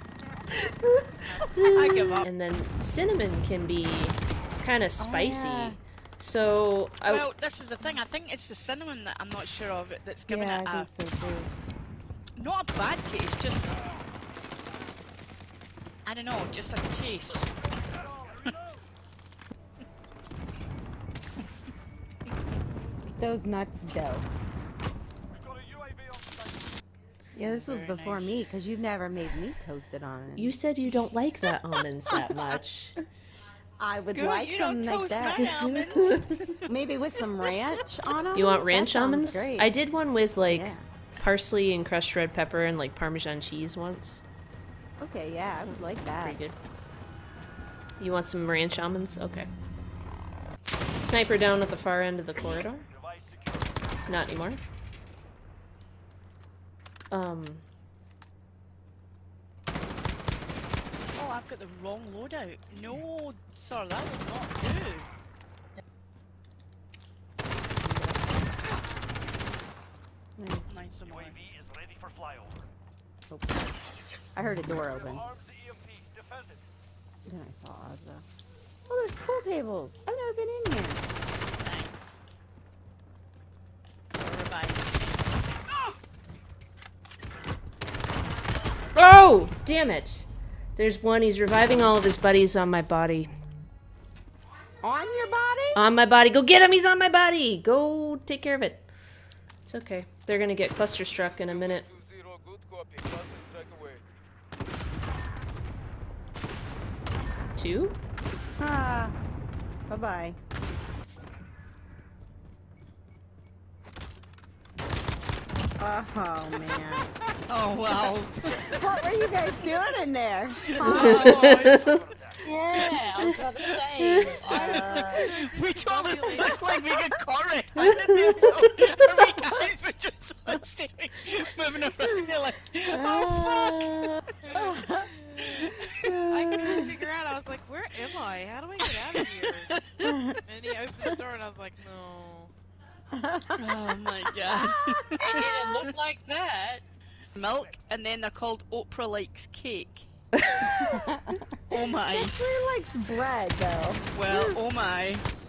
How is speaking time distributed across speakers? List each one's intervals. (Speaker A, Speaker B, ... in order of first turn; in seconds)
Speaker A: 1.3-1.6, 125.3-126.6, 134.4-135.5, 136.2-139.7, 140.4-142.5
Speaker B: 1.6-2.3, 7.1-10.9, 12.4-13.8, 16.1-17.5, 27.4-28.3, 32.1-32.6, 34.1-36.6, 61.1-65.1, 70.7-71.4, 81.6-82.2, 84.2-85.0, 117.3-118.7, 120.7-122.0, 124.7-134.1, 135.4-136.1, 139.4-140.1, 143.6-145.9, 147.3-150.1, 151.7-152.4, 154.1-155.3
Speaker C: 1.6-7.2, 30.4-32.9, 35.9-36.2, 38.3-44.2, 45.7-46.5, 48.0-49.5, 51.0-52.9, 54.1-54.6, 57.1-57.6, 88.9-93.3, 95.7-98.9, 99.6-101.9, 107.5-108.0, 120.9-121.9, 124.0-124.3, 127.8-128.9, 136.0-136.8
Speaker D: 5.0-5.8, 10.3-11.5, 23.2-24.2, 27.3-30.6, 33.8-35.4, 36.7-39.7, 40.5-40.8, 45.0-46.4, 67.8-68.6, 70.4-70.8, 73.3-73.6, 74.3-75.3, 77.3-78.2, 78.9-81.1, 94.8-95.8, 108.6-109.2, 109.9-110.4, 115.8-117.1, 118.6-121.4, 124.5-125.2, 126.4-127.0, 132.9-135.1, 140.0-140.4, 143.1-143.6, 144.5-145.0, 150.6-154.6
Speaker E: 25.8-26.2, 71.7-72.5, 75.4-76.6
Speaker F: 122.4-125.3, 145.2-146.8